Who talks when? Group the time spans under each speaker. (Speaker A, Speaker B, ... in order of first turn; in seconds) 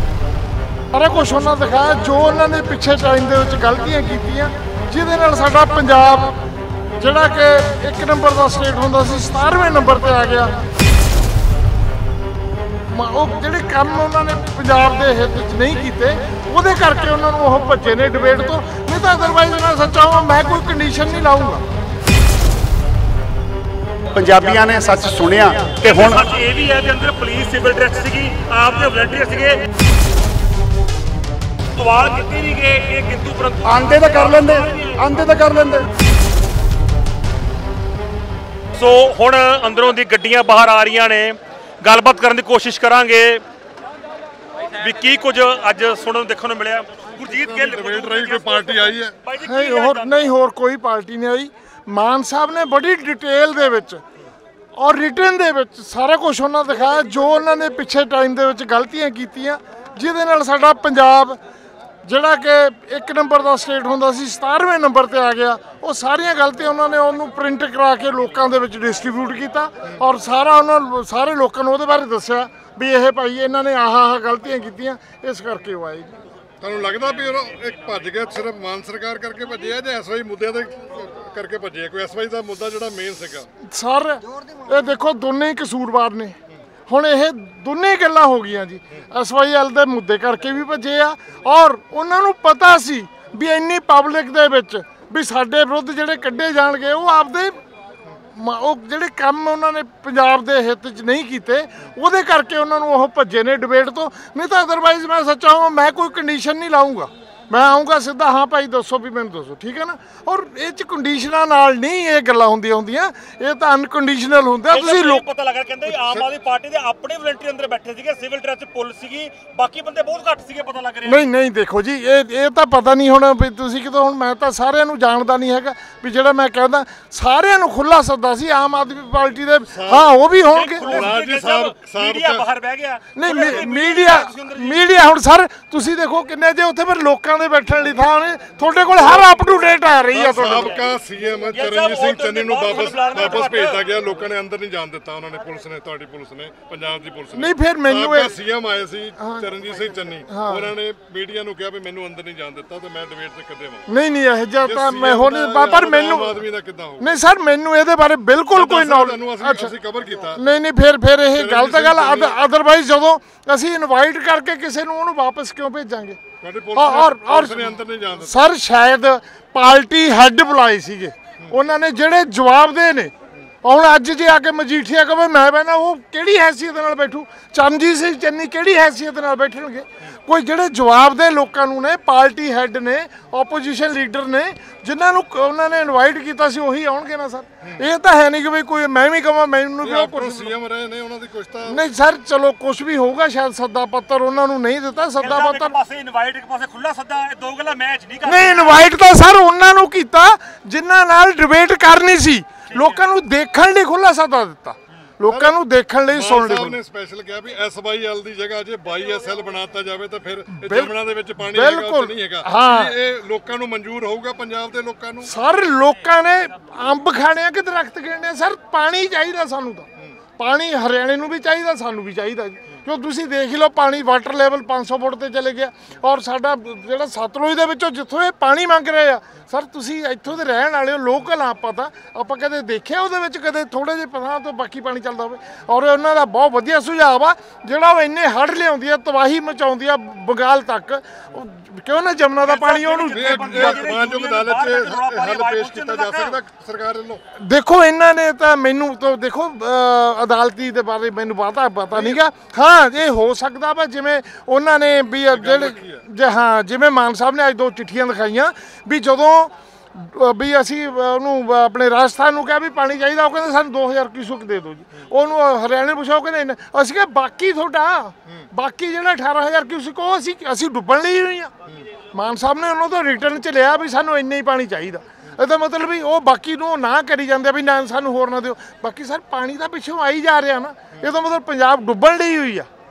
Speaker A: 0.9-6.4, 7.0-10.6, 12.9-21.6, 49.4-54.0, 54.8-61.4, 62.0-76.2, 83.6-86.3, 86.9-97.5, 98.3-115.2, 121.0-131.1, 133.1-140.8, 147.3-148.3, 149.2-149.5, 150.2-150.7, 153.9-156.4, 157.0-159.7, 160.3-166.2, 166.7-167.7, 168.2-190.5, 191.7-195.7, 198.2-206.8, 210.6-210.9, 211.4-212.9, 215.2-243.8, 247.3-271.5, 272.1-282.7
Speaker B: 24.1-26.3, 33.6-35.9
Speaker C: 25.8-29.6, 31.7-35.0, 38.7-43.4, 44.8-50.3, 114.7-121.2, 130.5-134.8, 141.5-143.8, 195.2-198.8, 202.7-203.0, 242.4-246.4
Speaker D: 47.2-49.1, 76.6-83.5, 115.9-116.2, 129.7-132.4, 140.1-153.8, 154.6-157.2, 158.5-160.4, 161.3-162.4, 166.4-168.4, 189.8-191.8, 205.3-205.5, 206.1-215.3, 243.0-247.2, 251.9-252.2, 255.3-256.0